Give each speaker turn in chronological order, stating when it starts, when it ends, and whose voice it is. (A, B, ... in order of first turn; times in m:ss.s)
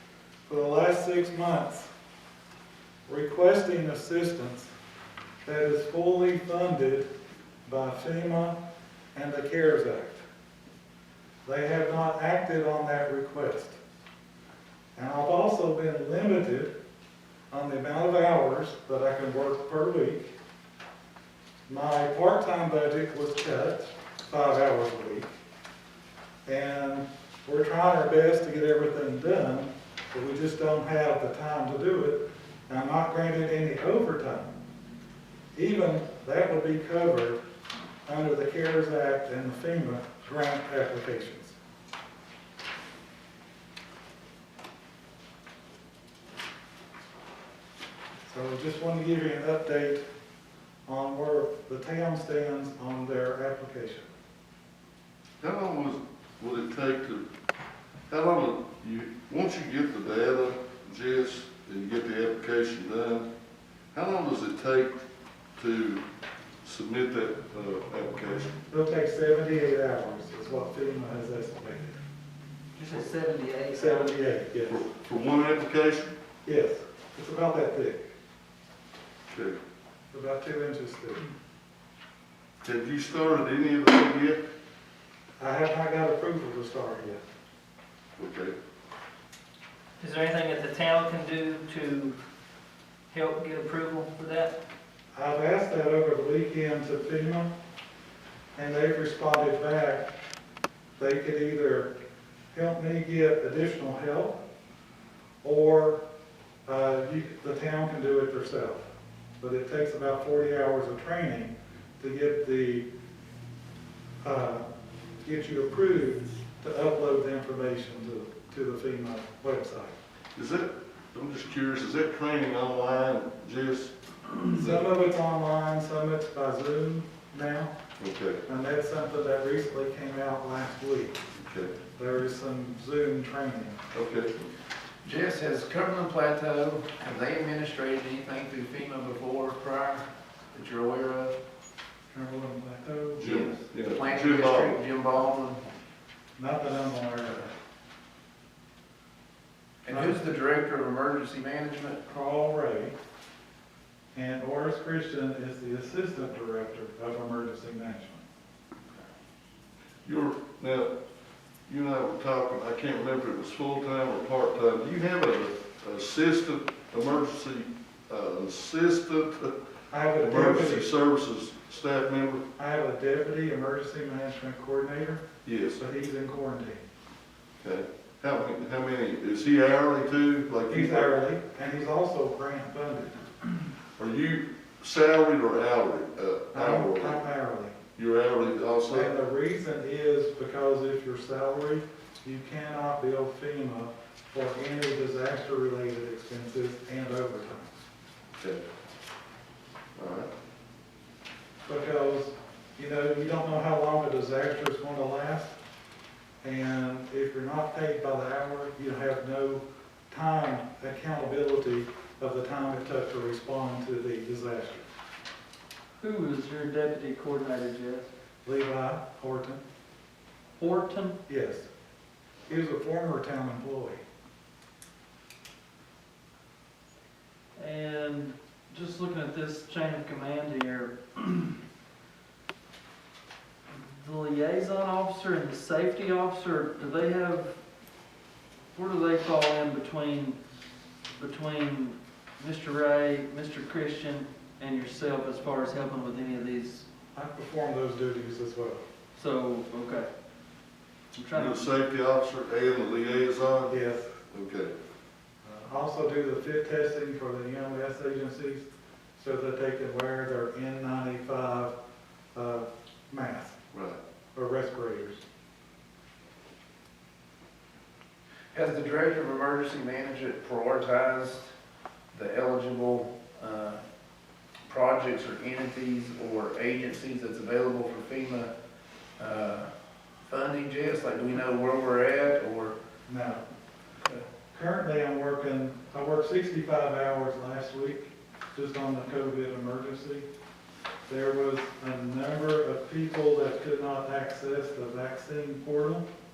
0:00.5-0:01.9 A
0:03.1-0:04.7 A
0:05.4-0:07.0 A
0:07.6-0:08.6 A
0:09.1-0:10.2 A
0:11.4-0:13.8 A
0:14.9-0:16.7 A
0:17.5-0:20.3 A
0:21.7-0:25.3 A
0:26.4-0:34.5 A
0:35.5-0:37.4 A
0:38.0-0:41.6 A
0:48.2-0:50.0 A
0:50.8-0:54.1 A
0:55.4-0:57.2 B
0:58.1-1:03.3 B
1:03.9-1:05.0 B
1:05.6-1:06.0 B
1:06.6-1:08.5 B
1:08.7-1:12.0 A
1:12.8-1:14.1 C
1:13.7-1:14.8 A
1:14.7-1:16.1 B
1:16.4-1:18.0 A
1:19.3-1:19.6 B
1:20.1-1:21.2 A
1:22.6-1:24.4 B
1:25.4-1:27.2 A
1:28.2-1:28.5 B
1:30.0-1:32.2 C
1:33.1-1:34.6 C
1:35.1-1:37.5 A
1:38.6-1:40.0 A
1:41.0-1:41.9 A
1:42.5-1:44.4 A
1:45.4-1:46.0 A
1:46.6-1:52.8 A
1:54.2-1:54.6 A
1:55.2-1:59.9 A
2:00.3-2:04.8 B
2:04.5-2:07.7 A
2:08.0-2:08.4 B
2:08.4-2:11.2 A
2:11.3-2:11.7 B
2:11.9-2:13.8 A
2:13.9-2:14.3 B
2:15.0-2:21.3 D
2:22.1-2:23.2 A
2:23.2-2:24.8 B
2:23.3-2:25.6 D
2:26.4-2:27.5 A
2:29.8-2:32.0 D
2:29.9-2:30.2 A
2:32.1-2:33.0 A
2:34.1-2:38.2 A
2:40.0-2:40.9 B
2:41.7-2:49.5 B
2:49.9-2:50.9 A
2:50.2-2:52.4 B
2:52.6-2:55.2 A
2:55.4-2:55.8 B
2:55.8-2:56.8 A
2:57.6-3:01.1 B
3:00.7-3:03.5 A
3:04.0-3:07.2 B
3:06.5-3:07.8 A
3:08.0-3:09.1 B
3:08.9-3:17.7 A
3:20.0-3:20.3 B
3:21.6-3:25.5 A
3:26.4-3:34.8 A
3:36.0-3:38.1 C
3:38.4-3:39.6 A
3:40.6-3:41.2 C
3:41.3-3:41.7 A
3:42.5-3:44.0 A
3:47.6-3:51.6 C
3:53.7-3:57.5 C
3:58.7-4:00.4 C
4:01.2-4:06.8 C
4:07.1-4:08.8 A
4:09.1-4:10.1 C
4:11.1-4:11.6 C
4:11.3-4:13.7 B
4:13.7-4:14.1 A
4:14.3-4:14.7 B
4:15.4-4:21.7 A
4:22.3-4:23.6 A
4:23.7-4:24.0 B
4:24.3-4:25.2 A
4:28.5-4:31.5 D
4:32.1-4:33.8 D
4:34.7-4:38.5 D
4:39.2-4:39.7 D
4:40.3-4:42.7 D
4:43.1-4:43.4 A
4:44.5-4:50.2 A
4:51.1-4:56.0 A